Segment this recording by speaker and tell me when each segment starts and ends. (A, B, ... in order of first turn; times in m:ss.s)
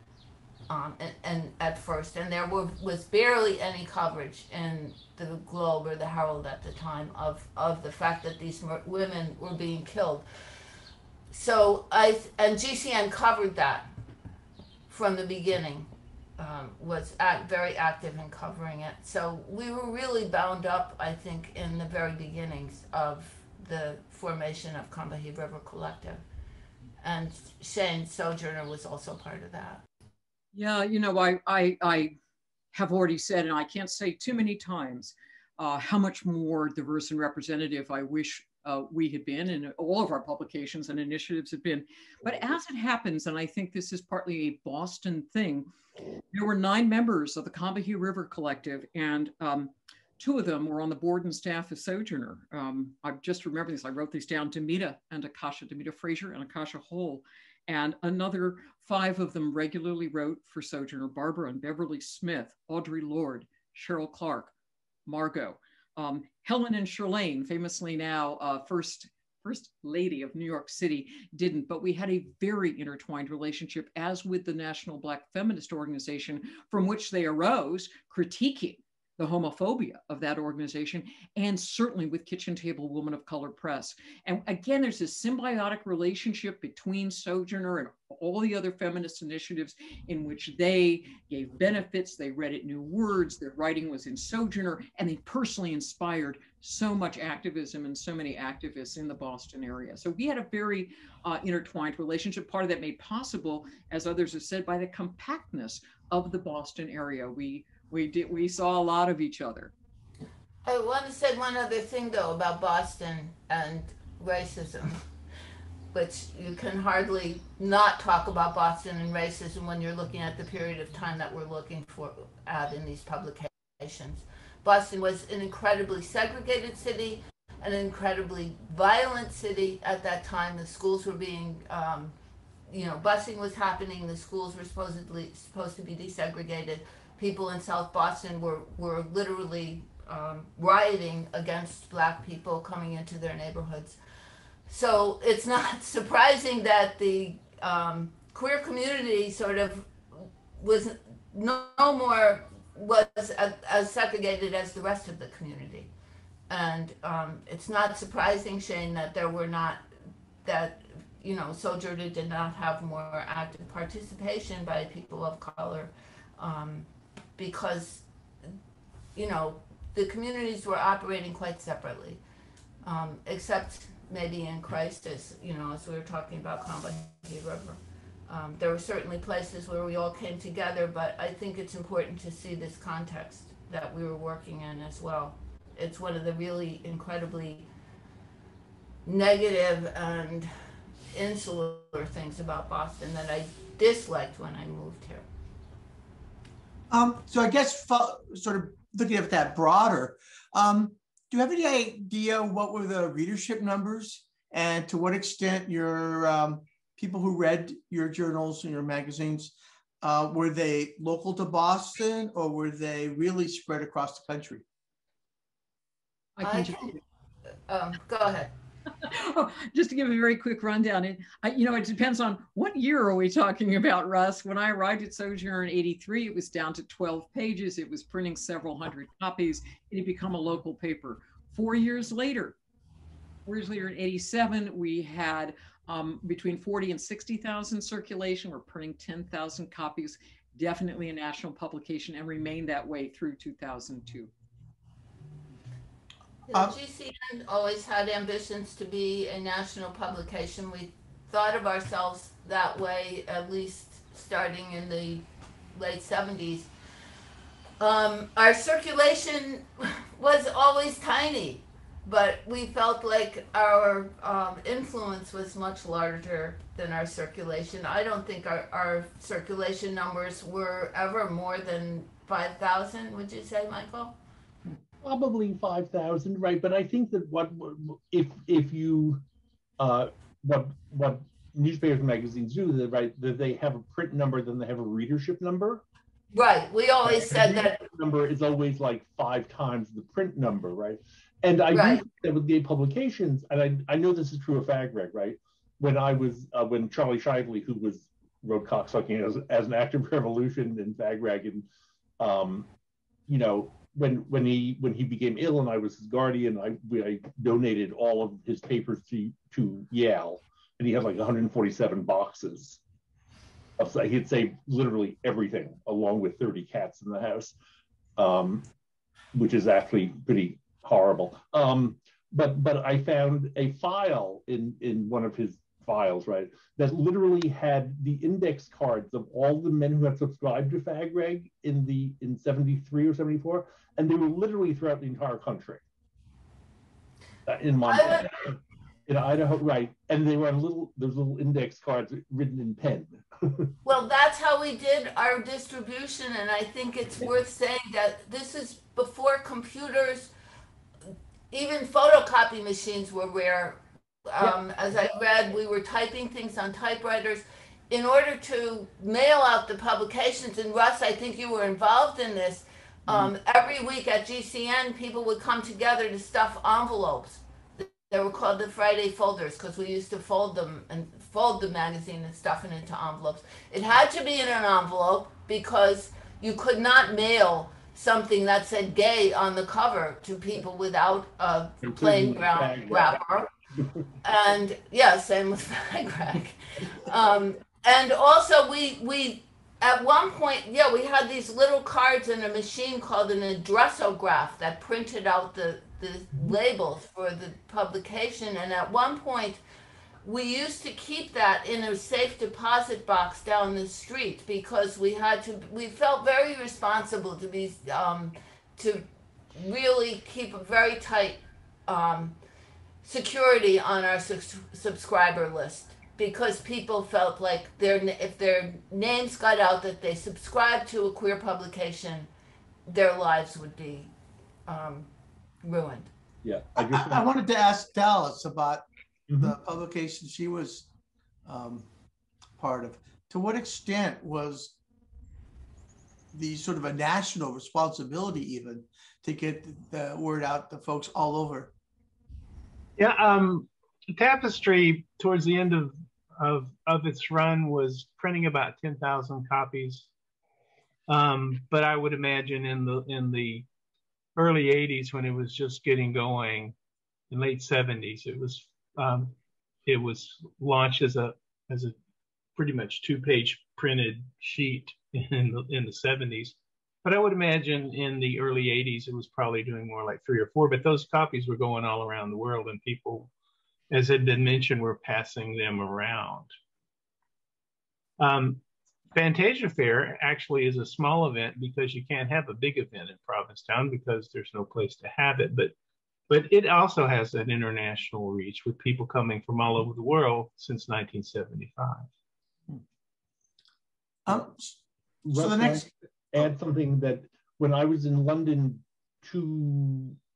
0:00.7-0:10.3 A
0:11.3-0:13.9 A
0:14.9-0:26.2 A
0:27.0-0:29.8 A
0:30.5-0:32.2 B
0:32.7-0:45.7 B
0:46.3-1:04.5 B
1:05.1-1:49.7 B
1:50.6-1:55.0 A
1:55.9-2:12.2 A
2:12.7-2:24.0 A
2:24.7-2:35.9 A
2:36.5-2:39.8 A
2:40.4-2:48.5 A
2:49.2-2:52.2 A
2:52.8-3:07.7 A
3:09.1-3:10.5 A
3:11.1-3:15.2 A
3:16.9-3:34.6 C
3:36.4-3:37.0 B
3:36.4-3:37.0 A
3:37.7-3:38.5 A
3:39.0-3:52.6 B
3:53.5-4:04.3 B
4:06.5-4:16.7 A
4:17.8-4:34.2 A
4:35.0-4:39.2 D
4:39.8-4:45.8 D
4:46.3-4:47.8 A
4:47.0-5:01.7 D
4:51.7-4:52.0 A
5:02.2-5:02.7 D
5:03.3-5:12.8 D
5:13.8-5:17.6 D
5:18.2-5:18.6 D
5:19.3-5:35.8 D
5:37.5-5:38.6 D
5:37.9-5:38.3 A
5:39.1-5:43.7 D
5:43.8-5:50.3 A
5:51.5-6:23.5 A
6:21.8-6:23.2 D
6:24.2-6:39.6 A
6:40.2-6:52.4 A
6:53.0-7:02.3 A
7:02.9-7:04.1 A
7:04.7-7:05.1 A
7:05.6-7:06.1 A
7:06.4-7:07.3 D
7:06.8-7:08.8 C
7:09.3-7:09.6 D
7:09.4-7:10.9 C
7:11.5-7:11.9 C
7:12.6-7:14.8 C
7:16.3-7:21.7 C
7:23.0-7:30.1 E
7:31.1-7:33.7 E
7:34.4-7:36.8 E
7:37.3-7:42.0 E
7:42.6-7:53.3 E
7:53.9-7:56.5 E
7:58.2-8:05.7 E
8:06.3-8:12.1 E
8:14.3-8:14.8 C
8:15.2-8:20.2 D
8:15.3-8:16.5 C